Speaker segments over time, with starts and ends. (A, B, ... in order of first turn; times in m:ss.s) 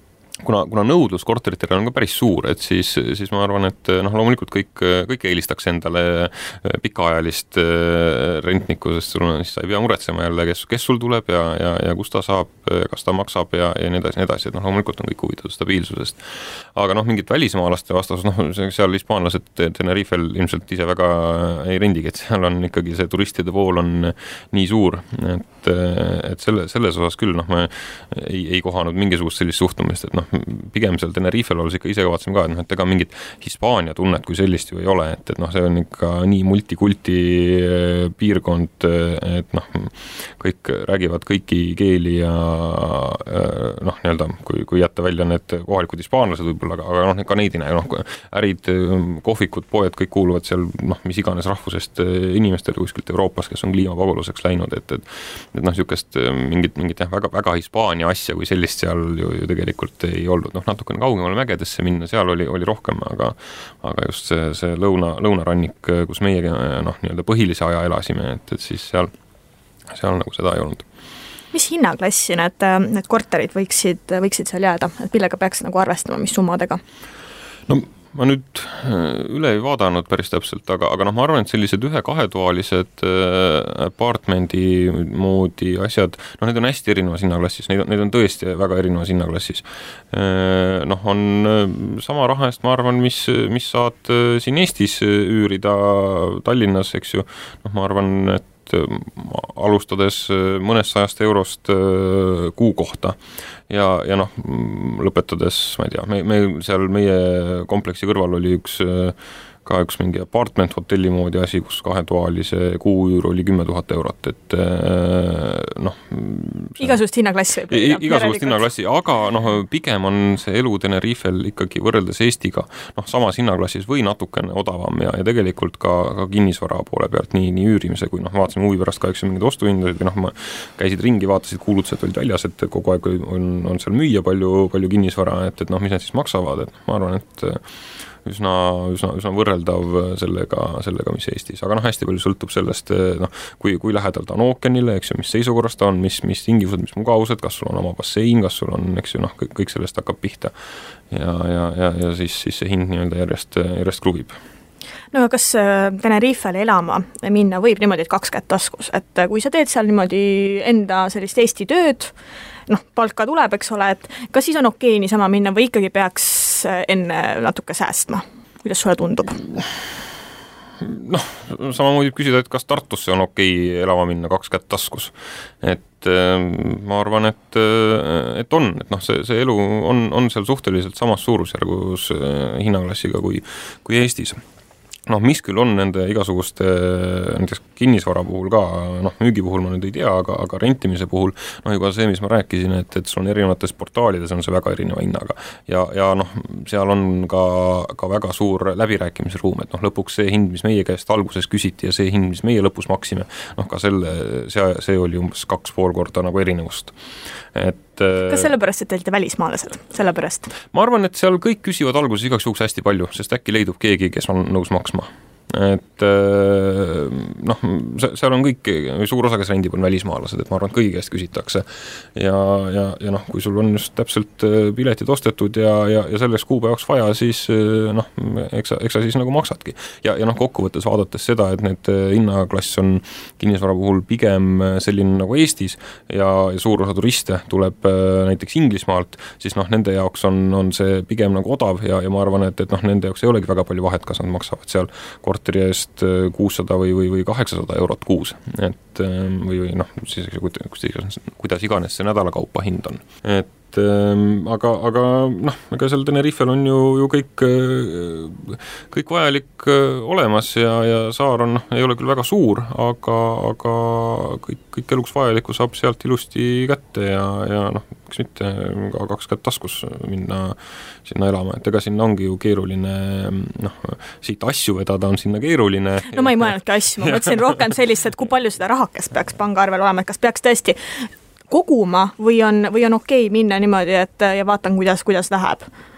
0:00.4-1:09.1 A
1:09.9-1:10.8 A
1:11.5-1:16.8 B
1:17.7-1:43.2 A
1:43.7-1:57.0 A
1:56.8-1:58.7 B
1:57.7-2:17.6 A
2:18.2-2:30.5 A
2:31.1-2:34.4 A
2:35.1-2:42.1 B
2:42.7-2:49.4 B
2:50.8-3:04.4 A
3:05.1-3:27.0 A
3:27.5-3:28.5 A
3:28.2-3:30.5 B
3:30.6-4:36.5 A
4:36.1-4:40.8 B
4:37.0-4:37.5 A
4:41.5-4:45.7 B